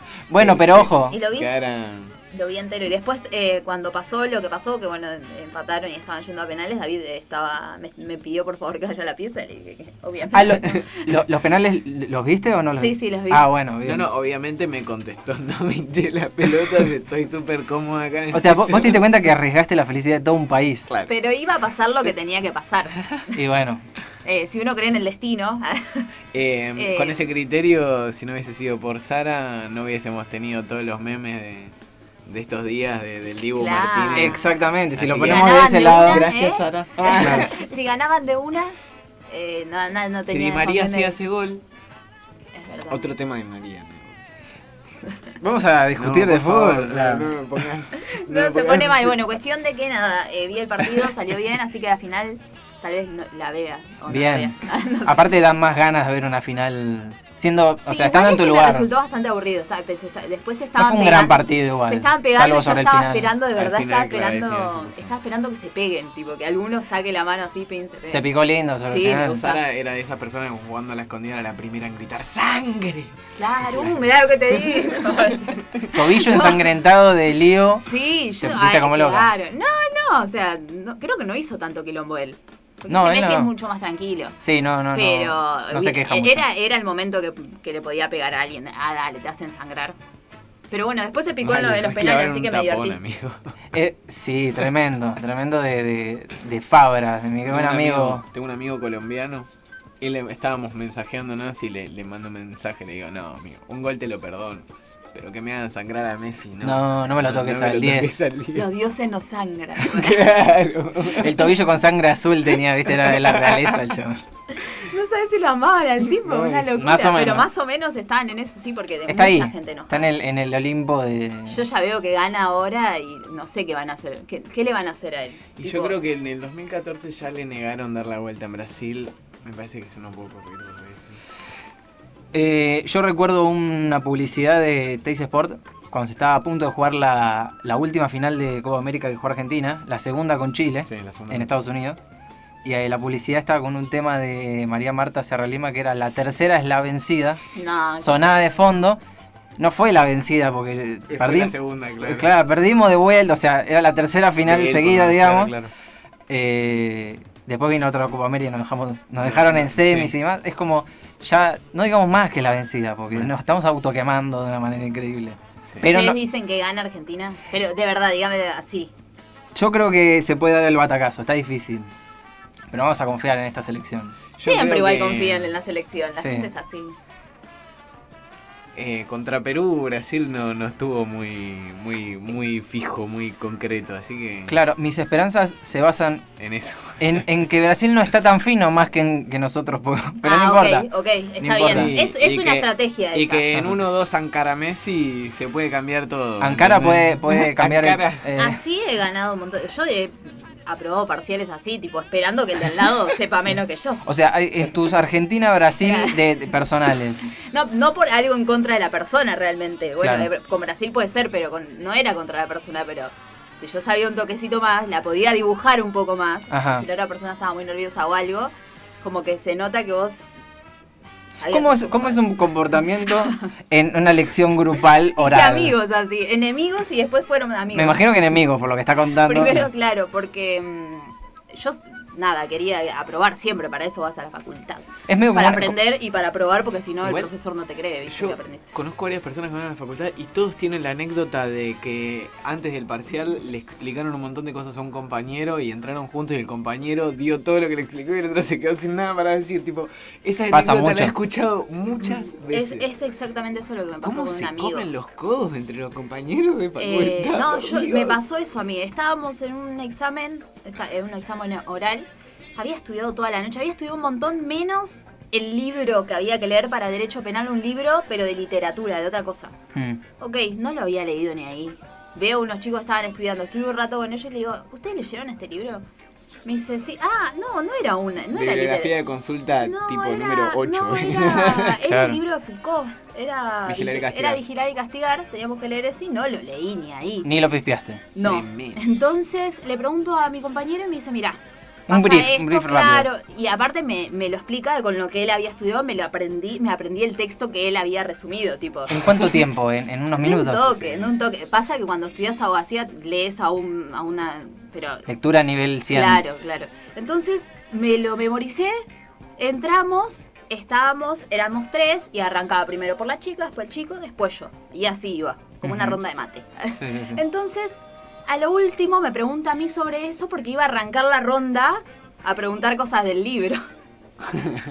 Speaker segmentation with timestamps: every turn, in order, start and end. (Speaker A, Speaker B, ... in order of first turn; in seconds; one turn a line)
Speaker A: 0.3-1.2
Speaker B: 0.3-2.1
Speaker C: 1.1-1.5
Speaker C: 2.3-11.0
Speaker A: 10.3-14.1
Speaker C: 12.8-13.5
Speaker B: 13.8-19.1
Speaker A: 18.3-20.9
Speaker C: 21.1-23.3
Speaker A: 23.3-23.8
Speaker C: 24.2-26.1
Speaker B: 26.3-31.7
Speaker C: 26.8-27.2
Speaker B: 32.3-34.4
Speaker C: 33.5-34.5
Speaker A: 34.1-36.3
Speaker B: 35.0-37.5
Speaker C: 35.2-38.8
Speaker A: 37.2-37.5
Speaker C: 39.3-41.2
Speaker B: 40.3-41.6
Speaker C: 42.5-43.1
Speaker B: 42.9-44.2
Speaker A: 45.4-47.3
Speaker B: 46.0-49.2
Speaker C: 48.1-55.3
Speaker A: 54.1-58.9
Speaker C: 57.9-68.3
Speaker A: 60.8-63.3
Speaker B: 63.5-65.1
Speaker A: 68.1-69.4
Speaker C: 68.9-69.6
Speaker B: 69.3-74.0
Speaker C: 73.4-75.6
Speaker B: 74.6-74.9
Speaker A: 75.9-77.9
Speaker C: 76.3-76.5
Speaker C: 77.8-84.4
Speaker A: 78.4-79.3
Speaker A: 82.9-83.5
Speaker A: 84.4-86.5
Speaker C: 84.9-90.0
Speaker C: 90.7-93.0
Speaker B: 91.4-93.5
Speaker A: 93.7-98.2
Speaker B: 97.5-99.5
Speaker B: 100.0-108.7
Speaker A: 106.6-108.2
Speaker C: 108.5-110.3
Speaker B: 109.8-111.5
Speaker A: 111.2-114.2
Speaker B: 113.0-113.8
Speaker C: 114.6-120.1
Speaker B: 116.2-116.8
Speaker A: 116.8-117.5
Speaker A: 119.1-121.7
Speaker C: 121.5-126.0
Speaker B: 125.6-131.3
Speaker A: 132.3-142.0
Speaker B: 140.9-141.5
Speaker A: 142.6-147.4
Speaker C: 147.6-148.4
Speaker A: 148.0-149.0
Speaker A: 149.6-155.5
Speaker B: 151.1-152.3
Speaker B: 154.5-155.7
Speaker A: 156.3-166.2
Speaker B: 159.2-160.1
Speaker C: 165.8-168.9
Speaker A: 169.6-171.9
Speaker A: 172.7-174.2
Speaker B: 174.4-175.5
Speaker C: 174.4-177.0
Speaker A: 176.2-176.5
Speaker B: 178.8-184.6
Speaker A: 184.5-186.3
Speaker B: 186.4-187.2
Speaker A: 187.0-190.9
Speaker C: 190.2-193.5
Speaker A: 191.4-192.0
Speaker B: 191.6-198.2
Speaker A: 193.5-193.8
Speaker A: 196.4-198.6
Speaker C: 198.4-204.0
Speaker A: 204.0-207.3
Speaker C: 205.8-206.2
Speaker C: 207.3-220.2
Speaker A: 210.0-210.3
Speaker A: 216.5-216.8
Speaker C: 221.4-222.2
Speaker A: 221.5-225.7
Speaker C: 225.2-228.3
Speaker A: 227.7-229.7
Speaker C: 229.2-238.8
Speaker A: 235.1-235.8
Speaker B: 237.0-237.3
Speaker B: 238.1-252.8
Speaker A: 250.5-251.2
Speaker C: 252.5-254.9
Speaker B: 254.0-258.2
Speaker C: 256.8-269.5
Speaker A: 269.7-270.0
Speaker C: 270.2-275.9
Speaker C: 276.4-278.9
Speaker B: 278.3-281.8
Speaker C: 279.6-287.3
Speaker A: 281.8-282.2
Speaker B: 283.7-284.4
Speaker A: 287.2-288.0
Speaker C: 288.1-299.4
Speaker B: 288.2-288.9
Speaker A: 291.9-293.1
Speaker A: 298.9-300.9
Speaker C: 300.2-305.1
Speaker A: 305.1-306.2
Speaker C: 305.9-308.8
Speaker C: 309.4-323.6
Speaker A: 315.6-316.0
Speaker A: 316.8-317.2